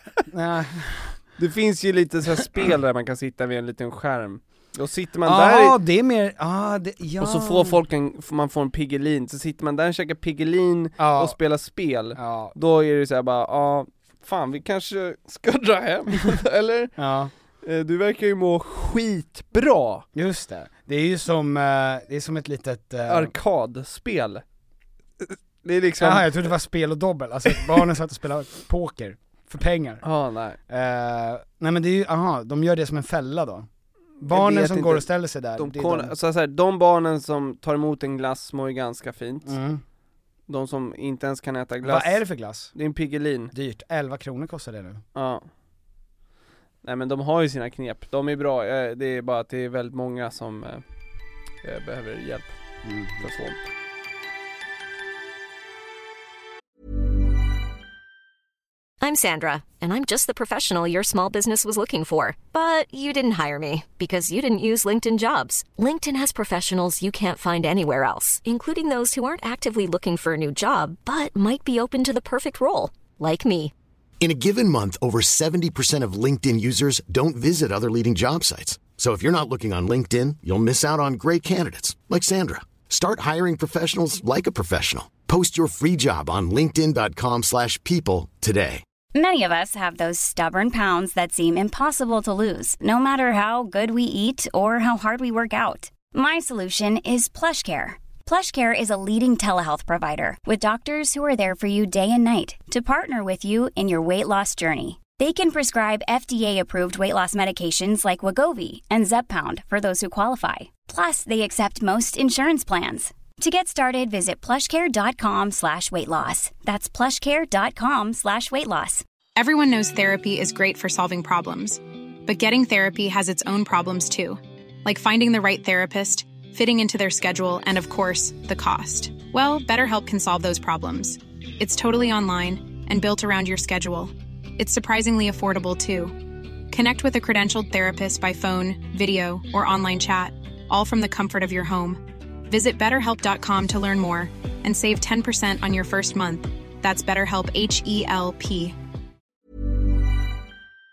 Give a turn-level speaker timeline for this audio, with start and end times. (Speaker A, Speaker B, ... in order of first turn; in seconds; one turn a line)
Speaker A: 0.3-1.2
Speaker B: 1.4-5.8
Speaker A: 5.2-7.8
Speaker B: 7.2-16.9
Speaker A: 11.0-11.4
Speaker A: 12.2-12.6
Speaker A: 17.0-17.3
Speaker B: 17.6-20.1
Speaker A: 20.1-23.3
Speaker B: 23.1-24.4
Speaker B: 25.2-26.5
Speaker A: 26.0-30.0
Speaker B: 30.0-30.6
Speaker A: 30.7-33.7
Speaker A: 34.2-36.1
Speaker B: 34.2-39.6
Speaker A: 39.5-39.8
Speaker B: 40.5-43.5
Speaker A: 41.8-42.7
Speaker A: 43.5-45.0
Speaker B: 45.1-45.5
Speaker B: 46.8-50.8
Speaker B: 51.6-52.5
Speaker A: 52.8-53.2
Speaker B: 53.2-53.6
Speaker C: 59.0-73.7
Speaker D: 74.2-88.8
Speaker E: 89.1-119.0
Speaker F: 119.4-136.2
Speaker F: 136.7-148.8